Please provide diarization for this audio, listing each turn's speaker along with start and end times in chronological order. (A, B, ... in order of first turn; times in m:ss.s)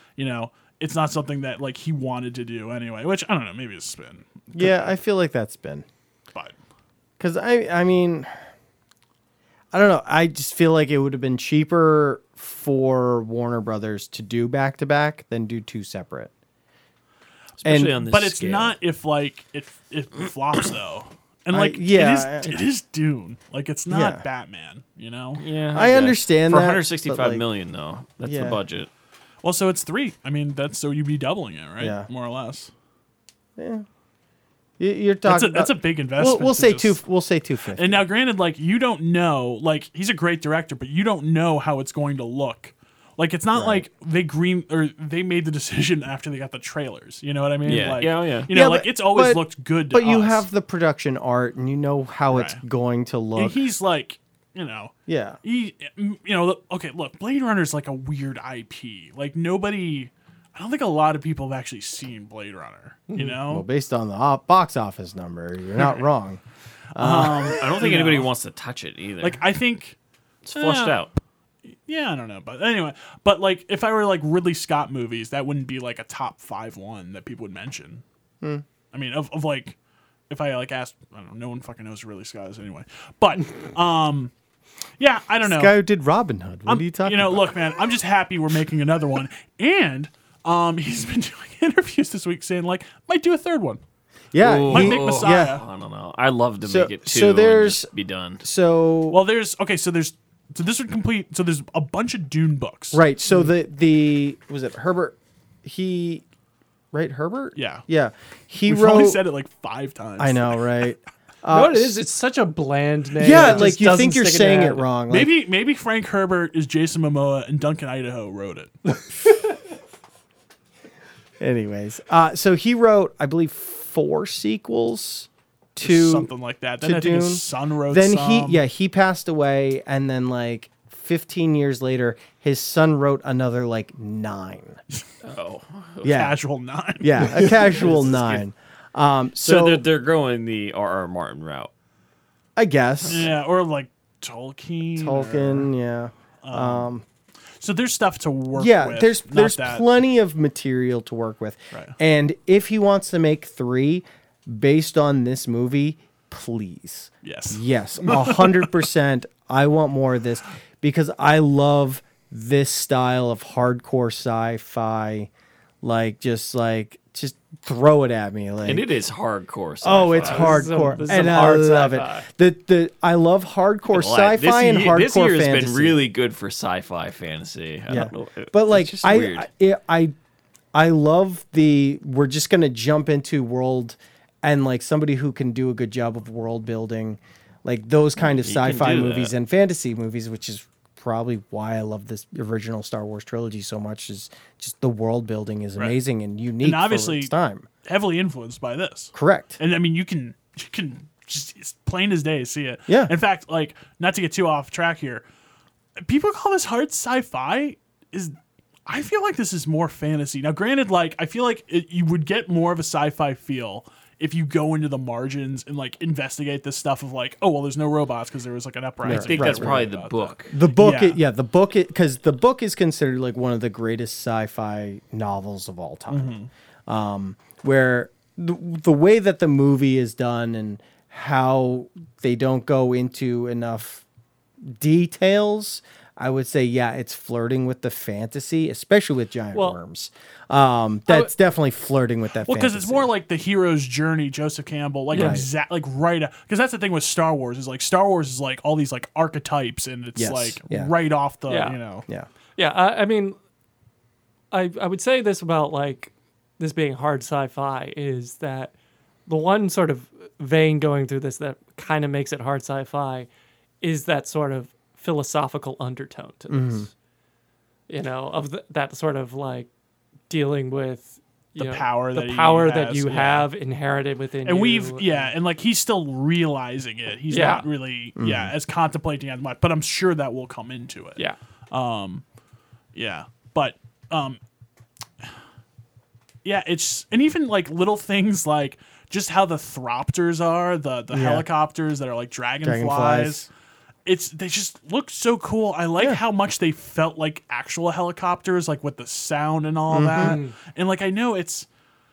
0:00.2-0:04.8 A
0:04.5-0:05.9 B
0:07.2-0:08.3 B
0:09.7-0:16.3 B
0:17.6-0:18.8 C
0:17.6-0:18.0 B
0:18.0-0:25.4 A
0:21.5-0:22.6 B
0:23.9-0:24.2 B
0:25.4-0:28.9 C
0:25.7-0:27.4 B
0:28.2-0:28.6 B
0:29.4-0:32.7 A
0:31.8-0:32.1 B
0:33.6-0:33.9 B
0:34.8-0:38.0 B
0:35.3-0:37.0 A
0:37.8-0:50.5 A
0:43.5-0:43.9 B
0:47.6-0:48.5 C
0:48.5-0:53.6 B
0:52.3-0:52.6 A
0:53.4-1:03.6 A
0:55.1-0:55.4 B
1:03.2-1:06.4 B
1:06.9-1:07.8 B
1:07.0-1:08.3 A
1:07.5-1:09.4 C
1:09.2-1:10.0 A
1:10.4-1:11.1 C
1:10.6-1:11.0 A
1:11.7-1:18.0 A
1:18.9-1:19.8 A
1:20.3-1:24.3 A
1:25.0-1:25.7 A
1:25.4-1:27.5 B
1:26.7-1:33.8 A
1:34.3-1:35.6 B
1:34.4-1:38.4 C
1:34.7-1:35.6 A
1:36.6-1:37.9 B
1:38.4-1:39.2 B
1:39.1-1:43.0 A
1:42.9-1:46.2 B
1:46.9-1:49.2 B
1:47.6-1:47.8 A
1:48.7-1:50.7 A
1:50.2-1:52.0 B
1:51.5-1:54.8 D
1:53.2-1:55.3 B
1:55.1-1:58.8 A
2:01.4-2:14.8 B
2:05.8-2:08.6 A
2:15.2-2:16.1 C
2:16.0-2:16.4 B
2:16.1-2:17.8 A
2:17.0-2:19.8 B
2:17.8-2:18.4 C
2:19.4-2:21.7 C
2:22.6-2:23.3 B
2:23.0-2:23.3 C
2:23.1-2:25.7 A
2:25.0-2:27.0 B
2:26.4-2:26.9 A
2:27.6-2:29.8 A
2:28.5-2:45.3 B
2:37.2-2:38.8 A
2:45.8-2:48.9 B
2:48.6-2:50.7 C
2:49.8-2:56.0 B
2:50.2-2:52.3 D
2:53.9-2:59.5 C
2:57.9-3:00.1 B
3:00.7-3:17.7 B
3:08.3-3:09.3 C
3:16.6-3:17.3 A
3:17.8-3:25.2 A
3:19.2-3:19.6 B
3:22.9-3:23.1 B
3:26.0-3:28.4 A
3:28.9-3:41.2 A
3:39.0-3:39.9 B
3:39.1-3:40.5 C
3:40.5-3:54.0 B
3:46.1-3:46.5 A
3:54.7-4:03.1 B
3:59.5-3:59.8 D
4:02.4-4:12.1 A
4:05.1-4:05.4 D
4:05.1-4:05.5 B
4:10.2-4:10.9 B
4:11.5-4:11.8 D
4:12.6-4:13.4 D
4:14.5-4:18.7 D
4:19.3-4:23.3 D
4:23.8-4:26.9 D
4:26.5-4:26.9 B
4:27.9-4:29.7 D
4:30.3-4:35.3 D
4:31.6-4:33.5 A
4:34.4-4:41.2 A
4:37.3-4:37.7 D
4:38.2-4:38.5 B
4:41.7-4:42.2 A
4:42.9-4:44.4 A
4:46.4-4:53.5 A
4:51.1-4:51.5 B
4:52.6-4:53.5 B
4:54.1-5:01.7 A
4:59.9-5:00.4 B
5:00.2-5:00.5 D